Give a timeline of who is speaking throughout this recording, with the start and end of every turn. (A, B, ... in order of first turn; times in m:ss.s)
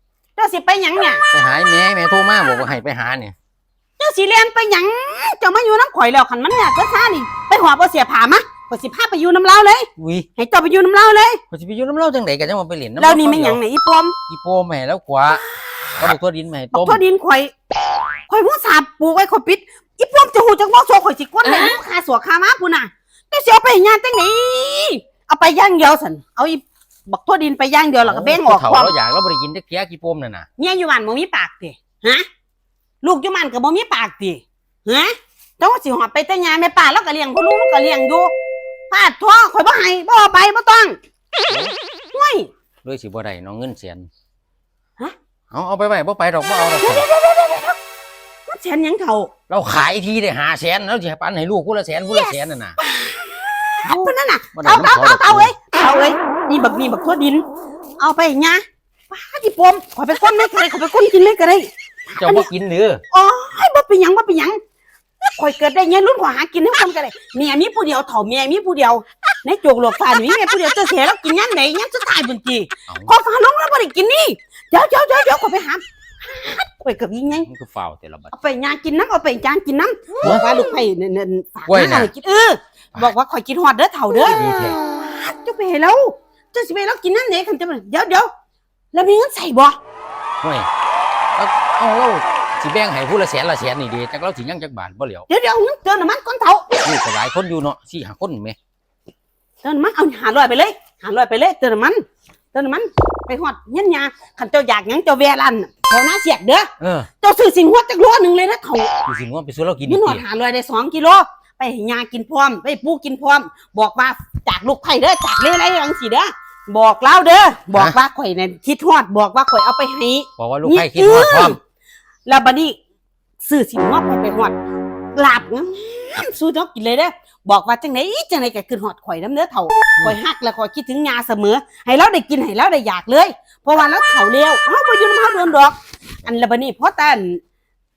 0:00.4-0:01.2 A
0:01.3-0:03.4 B
0:04.0-0:11.4 A
0:10.0-0:10.3 B
0:11.5-0:13.6 B
0:13.0-0:14.2 A
0:14.3-0:15.4 B
0:16.0-0:17.0 B
0:16.7-0:17.5 A
0:18.3-0:29.0 A
0:28.0-0:30.5 B
0:30.6-0:32.2 A
0:33.0-0:38.3 A
0:38.9-0:41.0 A
0:41.5-0:41.7 B
0:42.1-0:42.5 A
0:42.8-0:44.1 B
0:45.5-0:47.1 B
0:46.8-0:47.8 A
0:48.5-0:49.3 A
0:49.5-0:52.8 B
0:52.8-0:53.2 A
0:53.8-0:57.4 A
0:54.5-0:55.5 B
0:58.0-1:02.5 A
1:02.2-1:03.0 B
1:03.1-1:04.6 A
1:05.2-1:17.5 A
1:12.9-1:13.1 B
1:17.3-1:18.3 B
1:18.3-1:28.3 A
1:21.7-1:22.1 B
1:24.3-1:24.8 B
1:28.9-1:29.8 A
1:30.4-1:30.7 B
1:31.4-1:35.3 B
1:35.3-1:36.8 A
1:36.8-1:38.6 B
1:39.6-1:42.0 A
1:42.5-1:46.7 A
1:46.8-1:47.1 B
1:47.2-1:48.9 A
1:49.1-1:50.2 B
1:49.9-2:01.6 A
2:00.4-2:01.6 B
2:02.3-2:02.8 A
2:03.4-2:04.6 A
2:05.2-2:17.4 A